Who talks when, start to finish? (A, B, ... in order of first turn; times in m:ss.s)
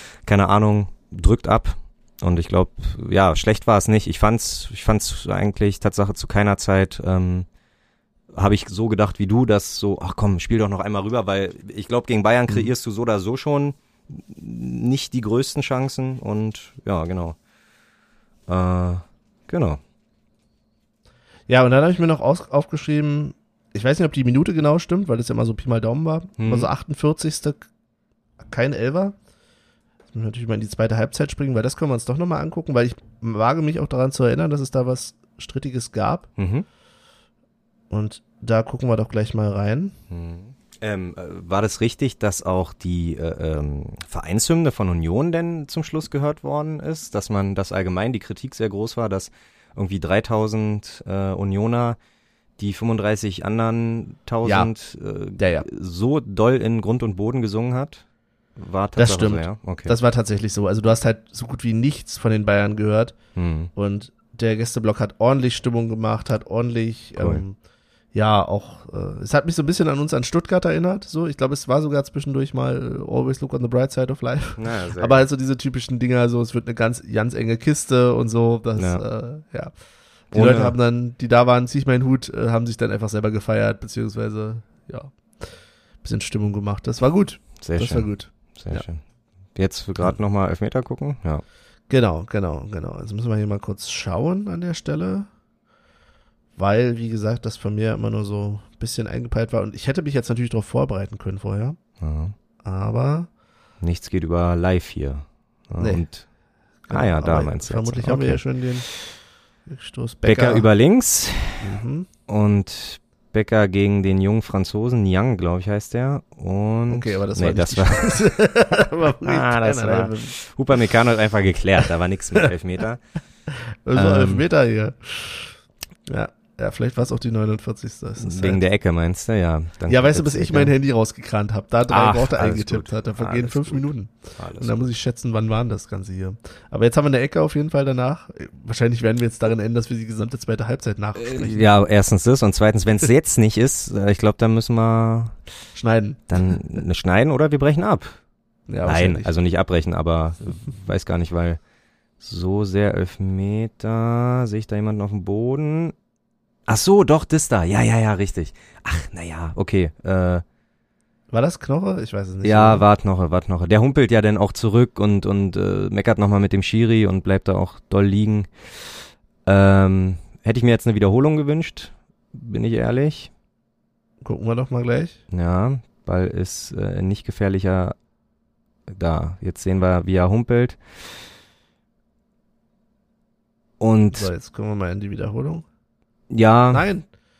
0:00.2-0:07.5 A
0:08.3-0:17.4 A
0:18.5-0:19.8 A
0:21.5-0:27.7 B
0:26.4-0:26.7 A
0:28.5-0:29.2 B
0:30.1-0:36.3 B
0:36.4-0:36.7 A
0:37.9-0:39.9 B
0:40.1-0:52.0 A
0:52.6-0:58.0 A
0:54.4-0:54.7 B
0:55.4-0:55.7 B
0:58.6-0:59.9 A
0:59.0-1:03.2 B
1:03.4-1:03.7 A
1:03.8-1:07.6 B
1:07.2-1:07.4 A
1:08.1-1:19.8 B
1:14.6-1:15.2 A
1:18.8-1:19.0 A
1:20.3-1:28.8 B
1:20.3-1:20.8 A
1:27.6-1:29.0 A
1:29.6-1:31.4 A
1:31.9-1:35.3 B
1:36.6-1:41.8 B
1:42.0-1:42.3 A
1:42.6-1:43.3 B
1:43.8-1:46.3 A
1:45.8-1:46.1 B
1:46.9-1:48.9 B
1:46.9-1:48.9 A
1:49.7-1:50.7 B
1:50.2-1:58.4 A
1:51.6-1:52.1 B
1:56.9-2:00.4 B
1:59.2-2:03.0 A
2:03.8-2:08.6 B
2:04.0-2:04.4 A
2:08.2-2:10.7 A
2:09.9-2:21.7 B
2:11.9-2:14.8 A
2:21.2-2:25.4 A
2:25.8-2:26.6 B
2:26.3-2:28.2 A
2:28.7-2:29.3 B
2:28.8-2:31.6 A
2:32.2-2:36.0 A
2:36.7-2:40.4 A
2:41.3-2:42.8 B
2:42.4-2:48.9 A
2:49.4-2:53.3 A
2:54.2-2:55.2 B
2:55.3-2:58.0 A
2:58.9-3:00.8 A
3:03.8-3:04.3 A
3:04.1-3:05.7 B
3:06.3-3:06.8 A
3:06.7-3:07.1 B